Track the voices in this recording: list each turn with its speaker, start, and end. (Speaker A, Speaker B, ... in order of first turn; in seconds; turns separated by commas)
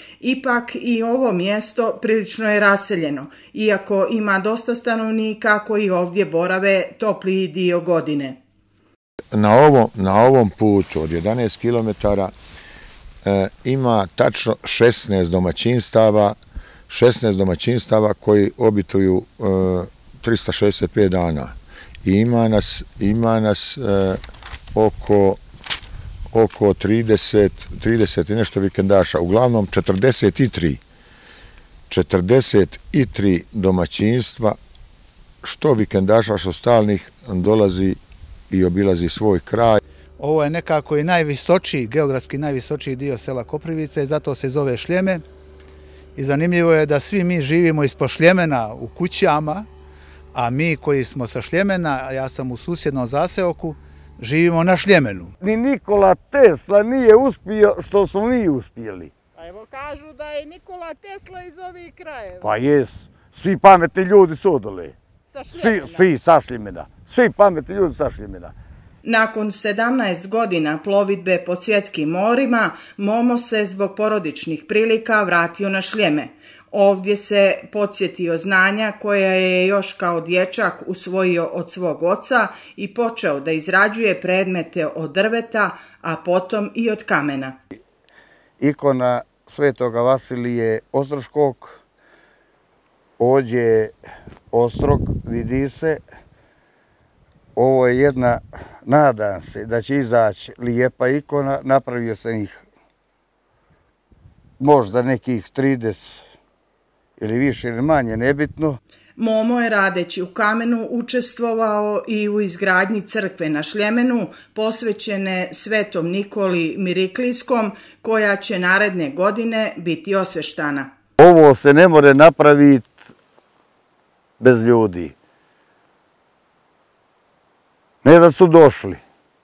Speaker A: 0.2-8.4, Speaker B: 9.3-12.3, Speaker B: 13.3-16.4, Speaker B: 16.9-21.5, Speaker B: 22.0-24.2, Speaker B: 24.8-25.4, Speaker B: 26.3-30.8, Speaker B: 31.9-34.6, Speaker B: 35.4-38.0, Speaker B: 38.5-39.8, Speaker C: 40.2-45.2, Speaker C: 46.1-49.7, Speaker C: 50.3-55.3, Speaker D: 55.4-59.1, Speaker E: 59.4-62.5, Speaker A: 61.2-62.0, Speaker D: 62.4-65.0, Speaker E: 65.3-66.0, Speaker D: 65.5-68.5, Speaker A: 69.0-87.6, Speaker D: 88.6-91.8, Speaker D: 93.2-94.0, Speaker D: 94.5-96.0, Speaker D: 97.6-102.6, Speaker D: 104.6-106.2, Speaker D: 107.2-108.8, Speaker A: 109.2-120.9, Speaker D: 121.2-123.0, Speaker D: 124.4-125.1, Speaker D: 128.0-129.0